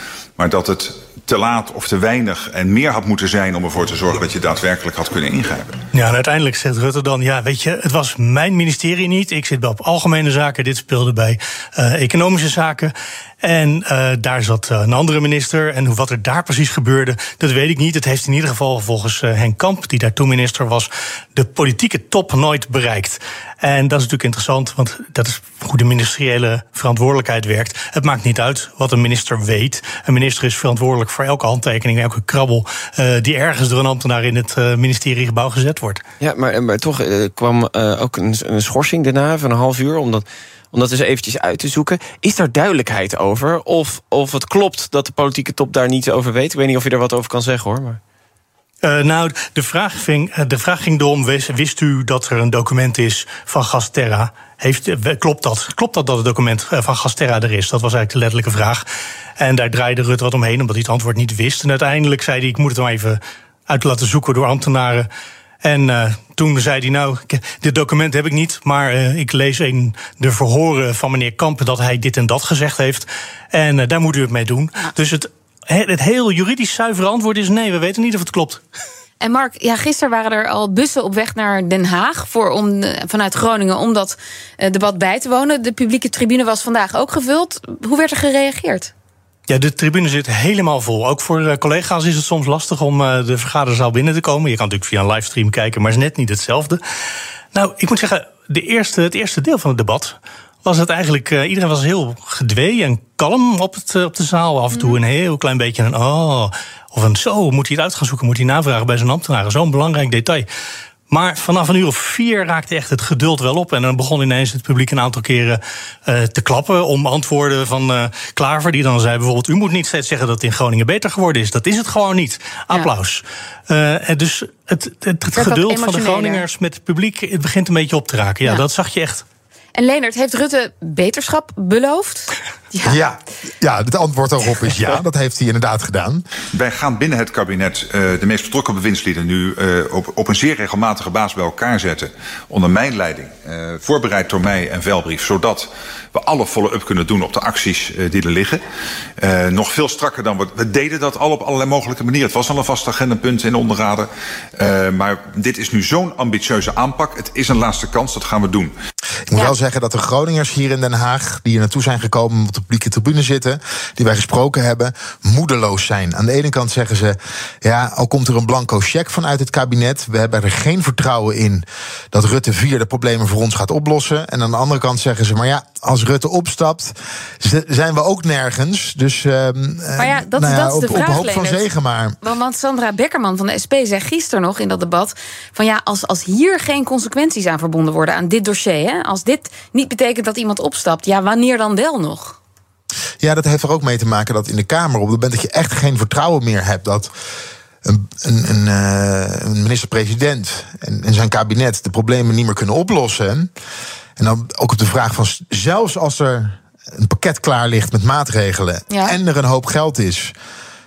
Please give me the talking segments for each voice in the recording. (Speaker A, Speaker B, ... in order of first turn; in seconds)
Speaker A: 0.4-5.8, 136.5-148.6, 149.2-158.7
Speaker B: 5.9-36.0, 48.8-58.9, 59.4-65.1, 65.6-78.6, 89.5-96.8, 97.5-110.5, 111.1-129.2
Speaker C: 36.2-48.0
Speaker D: 79.2-88.9, 104.7-105.0, 125.3-126.5, 129.8-133.0, 180.0-181.7, 182.2-192.3, 208.9-209.2
Speaker E: 132.8-136.2, 159.3-182.2, 193.2-197.1, 197.8-203.5, 204.2-210.3